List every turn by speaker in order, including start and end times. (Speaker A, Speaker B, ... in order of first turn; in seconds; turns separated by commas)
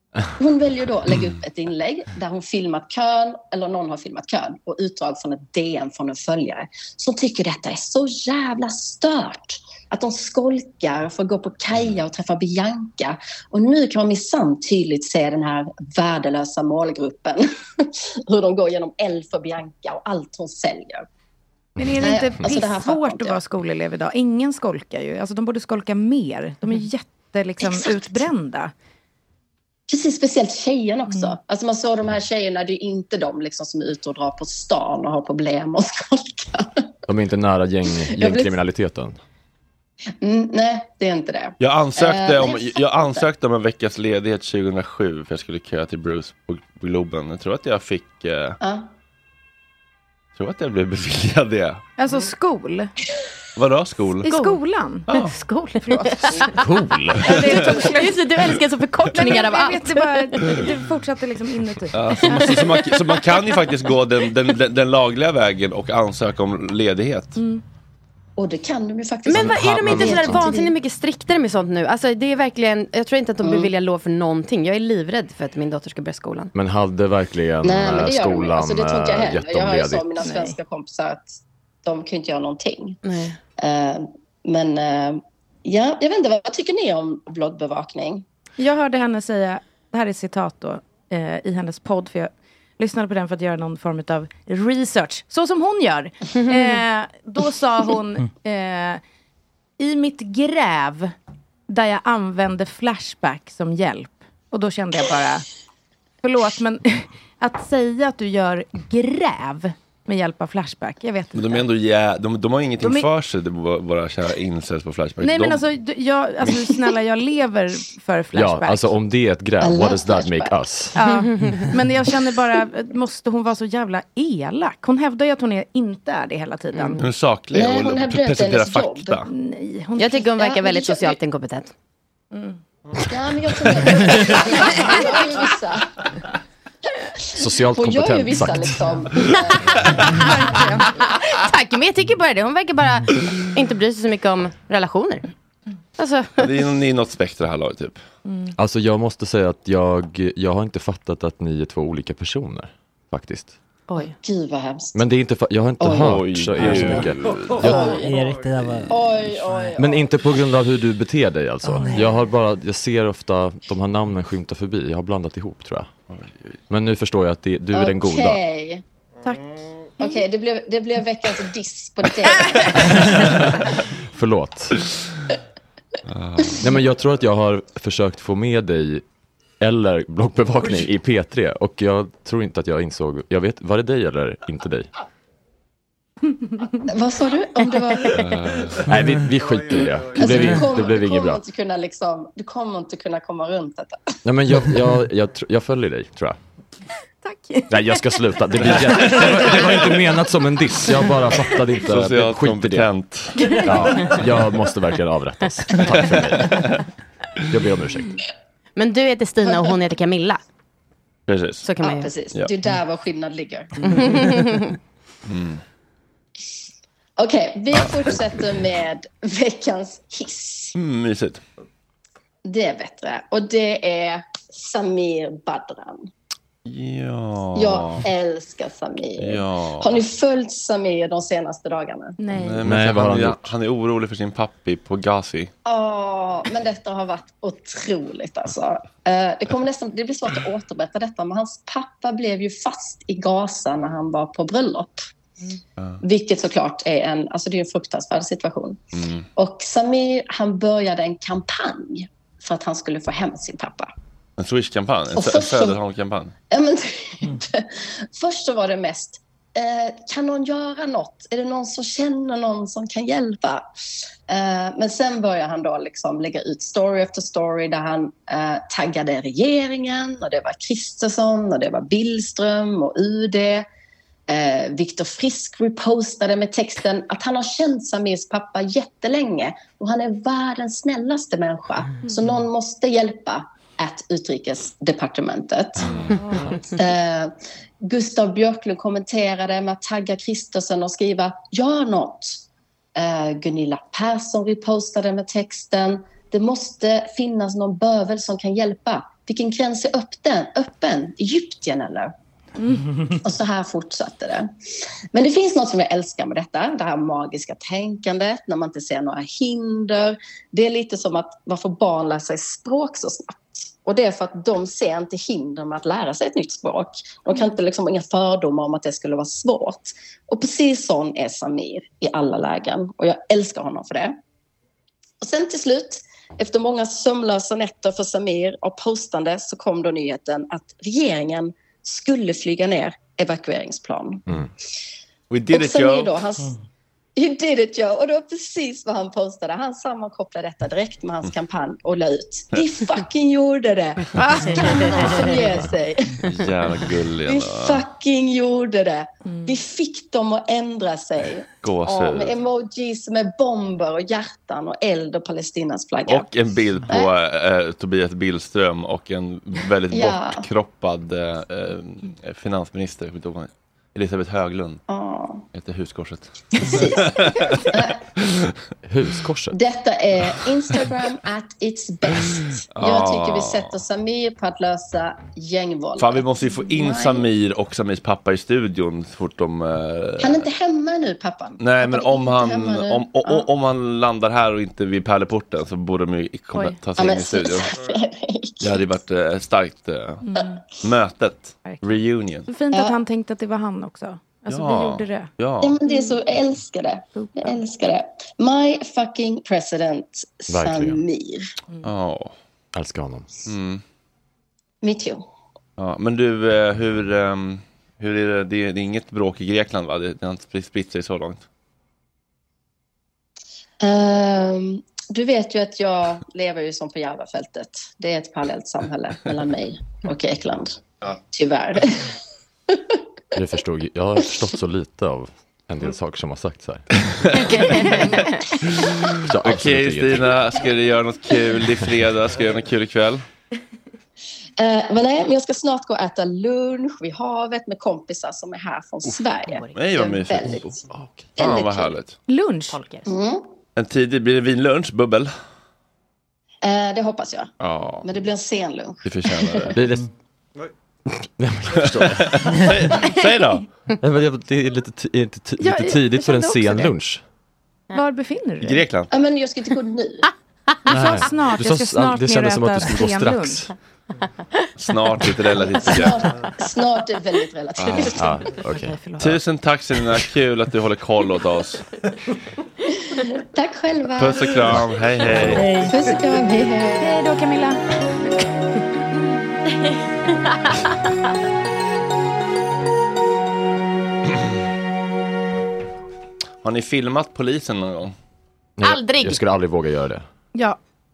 Speaker A: 0.4-21.1, Speaker B: 21.8-28.7, Speaker A: 22.0-23.4, Speaker A: 27.6-28.3, Speaker A: 29.9-36.8, Speaker C: 37.1-39.2, Speaker A: 38.1-38.5, Speaker A: 40.2-43.3, Speaker D: 41.6-48.6, Speaker A: 48.6-48.9, Speaker D: 50.4-51.8, Speaker B: 52.0-52.9, Speaker D: 53.6-54.3, Speaker B: 54.2-55.1, Speaker E: 54.3-56.5, Speaker B: 55.8-56.5, Speaker C: 56.5-57.4, Speaker B: 57.2-58.2, Speaker E: 57.5-60.6, Speaker B: 59.1-62.6, Speaker D: 61.9-67.4, Speaker B: 67.4-67.6, Speaker A: 68.4-70.7, Speaker E: 69.3-76.5, Speaker C: 69.3-70.5, Speaker A: 73.4-73.7, Speaker C: 76.5-80.0, Speaker A: 77.6-83.0, Speaker B: 80.2-80.5, Speaker E: 83.0-83.4, Speaker A: 83.6-88.2, Speaker B: 88.6-99.0, Speaker E: 96.4-96.8, Speaker B: 99.8-101.1, Speaker B: 101.7-105.5, Speaker B: 106.2-111.6, Speaker D: 111.3-115.6, Speaker B: 115.2-118.9, Speaker C: 118.3-121.0, Speaker A: 119.6-120.6, Speaker B: 121.0-127.0, Speaker E: 121.0-121.6, Speaker E: 126.8-127.0, Speaker D: 127.0-129.3, Speaker A: 127.5-129.2, Speaker B: 129.3-131.1, Speaker E: 130.0-131.7, Speaker B: 132.3-132.6, Speaker A: 133.1-135.9, Speaker C: 137.4-139.0, Speaker A: 137.4-140.6, Speaker B: 140.2-140.9, Speaker E: 140.8-145.2, Speaker E: 146.0-146.5, Speaker D: 146.4-148.0, Speaker B: 148.3-148.5, Speaker C: 148.6-153.5, Speaker A: 154.2-155.0, Speaker C: 154.9-157.9, Speaker A: 155.8-156.2, Speaker D: 155.9-157.8, Speaker F: 156.6-157.1, Speaker A: 157.6-158.3, Speaker F: 157.6-159.8, Speaker A: 158.9-160.1, Speaker C: 159.8-165.9, Speaker D: 166.1-166.5, Speaker C: 166.7-168.4, Speaker A: 167.7-168.8, Speaker A: 170.0-173.0, Speaker C: 174.1-174.8, Speaker D: 176.1-176.7, Speaker C: 176.6-179.0, Speaker C: 179.6-184.9, Speaker A: 186.9-188.3, Speaker D: 188.2-188.9, Speaker C: 188.8-191.4, Speaker A: 190.1-194.0, Speaker C: 194.2-196.4, Speaker B: 197.2-198.2, Speaker C: 197.7-202.9, Speaker D: 201.8-203.7, Speaker C: 203.6-206.7, Speaker D: 206.1-206.8, Speaker C: 207.5-208.2, Speaker E: 208.8-210.4, Speaker A: 209.4-209.8, Speaker D: 211.3-211.7, Speaker E: 211.6-212.1, Speaker A: 211.8-213.9, Speaker E: 213.8-214.7, Speaker D: 215.3-215.6, Speaker A: 217.2-220.7, Speaker D: 220.8-221.4, Speaker A: 222.4-226.1, Speaker D: 226.7-228.1, Speaker A: 227.6-232.2, Speaker D: 229.2-230.0, Speaker B: 232.2-232.6, Speaker D: 232.3-235.5, Speaker C: 232.6-233.5, Speaker A: 235.7-245.0, Speaker A: 246.0-248.8, Speaker D: 249.0-249.3, Speaker A: 249.4-253.9, Speaker D: 254.4-256.3, Speaker A: 255.1-255.8, Speaker A: 256.5-263.7, Speaker A: 264.3-273.7, Speaker A: 274.3-285.9, Speaker D: 285.9-286.1, Speaker B: 286.0-286.6, Speaker A: 286.7-292.4, Speaker A: 292.9-302.1, Speaker B: 302.6-303.1, Speaker A: 303.2-304.5, Speaker A: 305.1-324.2, Speaker A: 325.2-334.2, Speaker D: 335.3-336.2, Speaker A: 335.5-336.5, Speaker A: 337.2-346.2, Speaker B: 344.2-345.2, Speaker D: 346.2-347.8, Speaker A: 347.2-356.3, Speaker B: 349.3-349.6, Speaker D: 351.6-352.4, Speaker D: 356.1-364.8, Speaker A: 356.9-357.1, Speaker A: 359.9-360.5, Speaker A: 364.9-365.4, Speaker D: 365.5-367.7, Speaker A: 366.6-368.0, Speaker C: 368.8-369.6, Speaker A: 369.5-377.3, Speaker D: 372.8-373.8, Speaker D: 376.0-380.5, Speaker A: 380.2-383.5, Speaker D: 381.6-387.8, Speaker A: 387.0-388.9, Speaker D: 388.6-390.2, Speaker B: 390.2-390.6, Speaker D: 390.8-392.5, Speaker B: 392.5-395.3, Speaker A: 392.7-393.0, Speaker D: 394.5-395.8, Speaker A: 395.6-401.5, Speaker B: 395.9-396.1, Speaker B: 397.2-397.6, Speaker C: 400.5-401.0, Speaker D: 401.8-402.3, Speaker C: 402.7-403.3, Speaker D: 403.5-403.8, Speaker A: 404.8-405.2, Speaker D: 405.8-411.4, Speaker A: 413.8-422.1, Speaker A: 422.7-423.0, Speaker C: 423.4-426.9, Speaker D: 427.2-428.0, Speaker D: 429.1-433.2, Speaker C: 429.2-430.4, Speaker A: 434.6-440.8, Speaker D: 439.7-440.8, Speaker D: 441.4-442.2, Speaker A: 441.4-441.7, Speaker B: 442.3-442.8, Speaker E: 442.7-443.1, Speaker A: 443.1-443.5, Speaker D: 443.8-445.3, Speaker A: 446.6-449.7, Speaker D: 449.1-449.7, Speaker C: 449.7-450.1, Speaker C: 451.1-452.4, Speaker D: 451.8-453.6, Speaker C: 454.0-457.2, Speaker B: 455.6-456.9, Speaker B: 457.9-458.8, Speaker D: 458.6-459.1, Speaker A: 459.1-460.3, Speaker C: 460.9-463.7, Speaker B: 460.9-463.6, Speaker D: 464.8-466.3, Speaker A: 465.8-468.4, Speaker D: 467.8-468.1, Speaker C: 468.1-469.0, Speaker B: 468.7-469.3, Speaker D: 469.2-471.9, Speaker A: 473.1-474.8, Speaker D: 474.2-475.7, Speaker C: 475.3-475.6, Speaker B: 475.5-476.2, Speaker A: 475.6-477.1, Speaker B: 477.0-477.8, Speaker D: 486.6-488.1, Speaker C: 488.8-490.2, Speaker E: 488.8-489.4